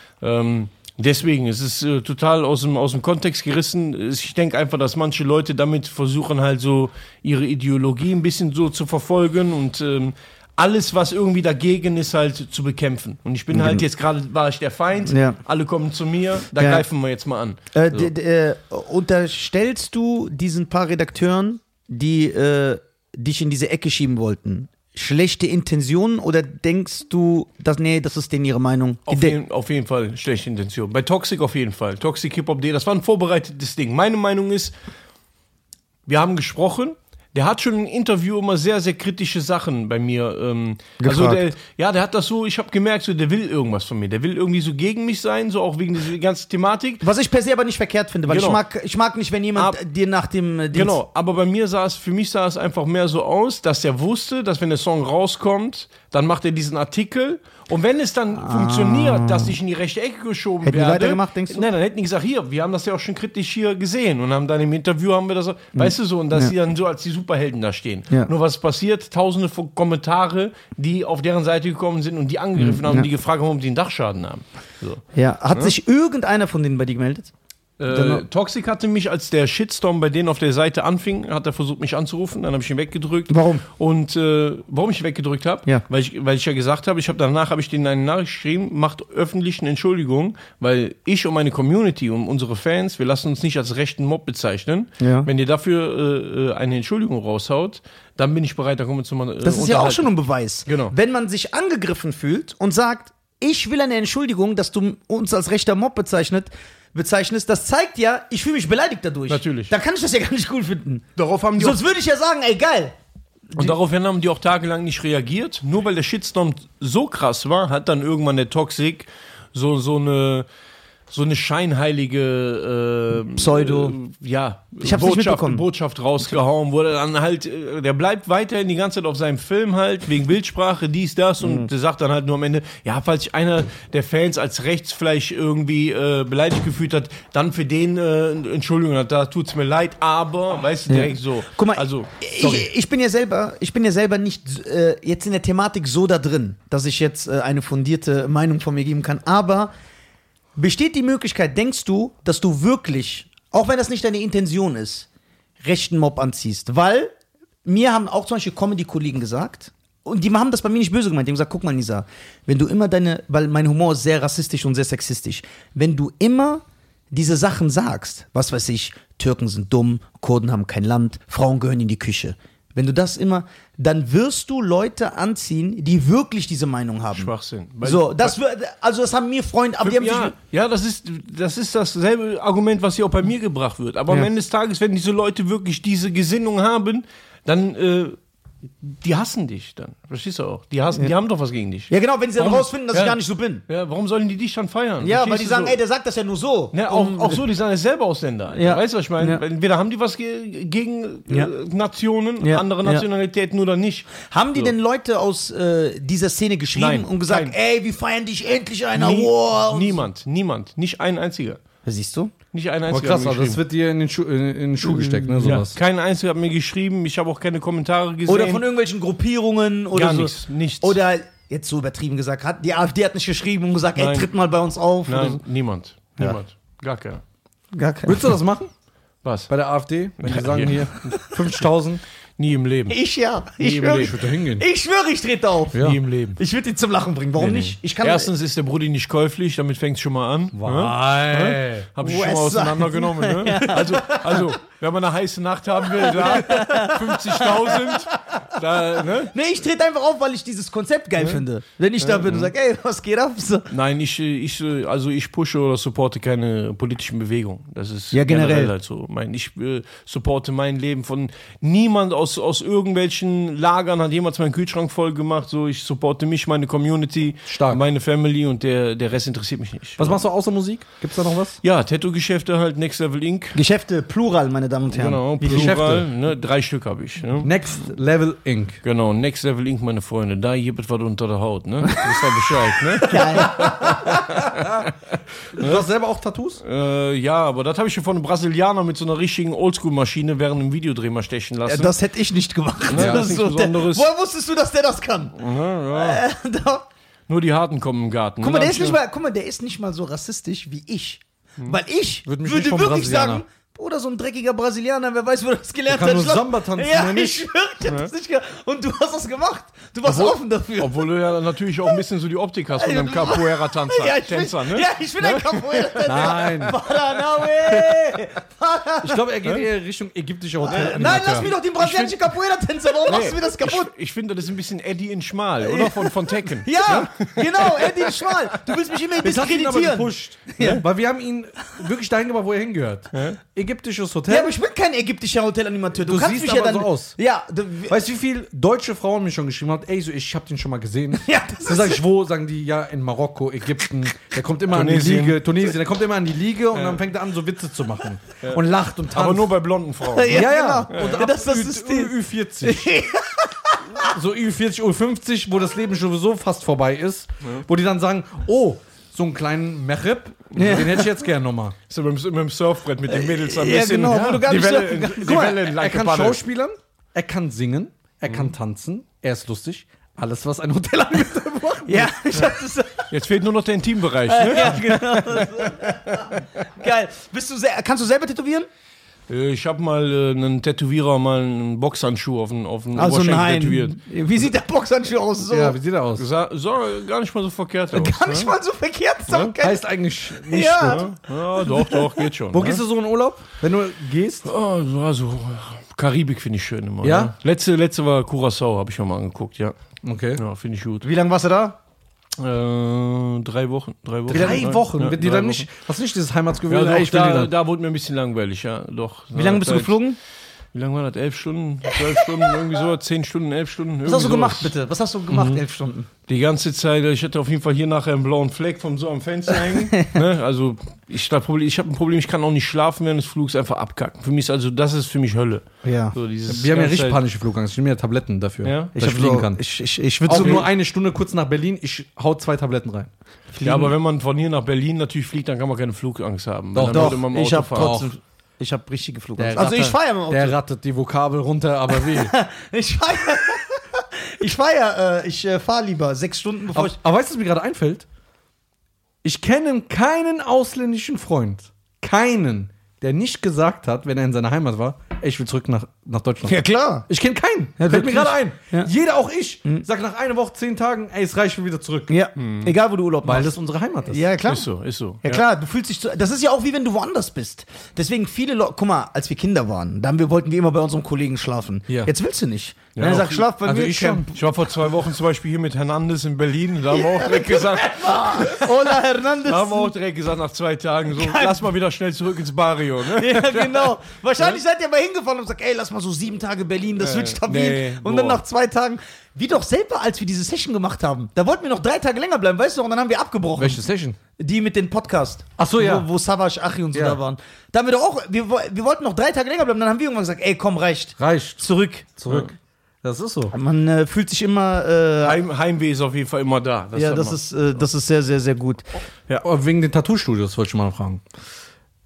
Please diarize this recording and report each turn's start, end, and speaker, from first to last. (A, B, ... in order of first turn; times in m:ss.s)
0:00.2-0:18.1 A
0:13.5-0:13.8 B
0:15.0-0:15.4 B
0:16.6-0:16.8 B
0:17.7-0:29.4 B
0:29.1-0:34.7 A
0:36.1-0:47.0 A
0:41.0-0:41.5 B
0:47.0-0:51.0 B
0:48.3-0:48.6 A
0:50.7-1:15.0 A
0:58.3-0:59.5 B
1:00.6-1:01.7 B
1:05.7-1:06.5 B
1:12.6-1:13.1 B
1:15.1-1:17.3 B
1:17.8-1:40.1 A
1:17.9-1:18.2 B
1:23.3-1:23.6 B
1:35.0-1:35.3 B
1:39.4-1:51.0 B
1:40.6-1:40.9 A
1:49.3-1:49.7 A
1:51.2-1:51.8 A
1:51.6-1:52.9 B
1:53.5-1:53.8 B
1:53.6-2:00.4 A
2:01.1-2:22.7 A
2:03.3-2:04.0 B
2:04.8-2:05.6 B
2:11.4-2:11.7 B
2:20.9-2:29.7 B
2:30.6-2:35.1 B
2:35.6-2:37.1 B
2:37.6-2:57.3 B
2:57.1-2:58.3 A
2:57.8-3:00.3 B
2:59.8-3:08.2 A
3:08.8-3:15.8 A
3:11.9-3:13.6 B
3:15.0-3:17.4 B
3:16.7-3:24.7 A
3:18.5-3:19.4 B
3:22.4-3:23.0 B
3:24.2-3:30.0 B
3:26.8-3:27.5 A
3:28.9-3:31.6 A
3:31.8-3:32.3 B
3:32.5-3:33.6 A
3:32.9-3:35.8 C
3:34.8-3:35.5 B
3:35.4-3:38.6 A
3:38.3-3:45.4 B
3:39.9-3:41.0 A
3:44.0-3:44.3 A
3:45.1-3:47.2 A
3:47.7-3:48.3 B
3:48.0-3:48.7 C
3:49.2-3:49.5 A
3:49.5-3:52.0 C
3:50.2-3:51.1 A
3:52.4-3:53.0 A
3:52.9-3:58.3 B
3:53.6-3:54.2 A
3:53.9-3:54.6 C
3:55.7-3:56.0 C
3:55.8-3:56.4 A
3:57.4-4:09.3 A
4:00.5-4:01.9 C
4:02.0-4:04.5 B
4:05.9-4:08.4 B
4:09.2-4:13.7 B
4:12.0-4:12.5 A
4:13.7-4:30.2 A
4:18.1-4:18.7 B
4:27.5-4:27.8 C
4:30.0-4:31.6 C
4:31.6-4:33.6 A
4:33.5-4:35.8 B
4:34.9-4:37.5 A
4:35.4-4:36.0 C
4:37.4-4:38.8 C
4:38.8-4:45.8 A
4:43.0-4:44.2 B
4:45.5-4:46.6 C
4:46.6-4:51.9 A
4:51.7-4:55.4 B
4:52.9-4:54.1 A
4:52.9-4:53.3 C
4:55.4-4:56.2 A
4:55.9-4:56.8 B
4:57.3-4:59.0 A
4:58.4-5:11.1 B
5:02.2-5:03.4 C
5:05.9-5:07.5 C
5:07.8-5:08.1 A
5:10.0-5:16.4 A
5:12.8-5:19.2 B
5:16.0-5:16.8 C
5:17.7-5:18.1 C
5:19.0-5:21.5 C
5:20.6-5:23.9 B
5:20.8-5:22.3 A
5:23.0-5:28.4 A
5:25.6-5:30.8 B
5:29.2-5:34.5 C
5:30.6-5:30.8 A
5:33.1-5:33.4 A
5:34.3-5:38.0 B
5:36.0-5:37.1 C
5:37.9-5:49.5 C
5:41.2-5:42.0 B
5:44.7-5:45.4 A
5:46.7-5:47.0 A
5:48.4-5:51.3 A
5:50.1-5:54.1 B
5:50.3-5:52.9 C
5:54.0-6:01.7 C
6:00.5-6:01.0 A
6:00.5-6:01.0 B
6:01.9-6:06.4 A
6:03.1-6:05.6 B
6:04.1-6:04.4 C
6:05.3-6:12.4 C
6:11.8-6:13.1 B
6:13.1-6:16.2 A
6:14.3-6:18.7 B
6:19.3-6:24.0 A
6:22.9-6:25.8 B
6:25.4-6:26.2 C
6:26.2-6:28.5 A
6:27.9-6:31.0 B
6:29.3-6:29.5 A
6:29.6-6:31.0 C
6:30.8-6:32.8 A
6:31.6-6:32.2 B
6:32.5-6:34.5 C
6:34.4-6:39.7 A
6:37.0-6:37.3 C
6:40.0-6:40.4 C
6:40.4-6:41.0 A
6:41.0-6:41.8 B
6:42.4-6:45.6 A
6:44.3-6:47.5 C
6:44.3-6:44.7 B
6:46.7-6:50.0 A
6:49.3-6:50.2 B
6:50.7-6:54.7 A
6:51.9-6:52.5 B
6:54.0-6:56.1 B
6:55.3-6:55.6 A
6:56.3-7:07.2 A
7:05.8-7:06.1 B
7:06.5-7:09.6 C
7:08.6-7:08.9 A
7:08.9-7:10.6 B
7:10.2-7:13.1 C
7:10.3-7:10.6 A
7:13.5-7:13.9 B
7:13.6-7:18.0 A
7:16.7-7:18.1 C
7:16.9-7:20.6 B
7:19.4-7:22.3 C
7:21.9-7:27.0 B
7:26.7-7:28.0 C
7:29.2-7:36.5 C
7:36.4-7:37.1 B
7:37.1-7:42.1 C
7:37.8-7:38.9 B
7:42.1-7:43.5 B
7:42.4-7:42.7 A
7:43.2-7:44.2 C
7:44.1-7:44.6 B
7:44.5-7:45.4 A
7:45.2-7:54.3 B
7:53.0-7:53.4 A
7:53.6-7:54.3 C
7:54.3-7:58.7 A
7:56.9-7:59.9 B
7:59.4-8:04.6 A
8:01.1-8:01.6 B
8:03.2-8:13.8 B
8:07.0-8:08.4 A
8:13.6-8:14.2 C
8:14.4-8:22.1 B
8:15.6-8:16.1 C
8:16.9-8:17.2 C
8:21.2-8:23.5 C
8:23.5-8:25.4 B
8:25.2-8:27.4 A
8:26.9-8:28.8 B
8:29.4-8:31.2 C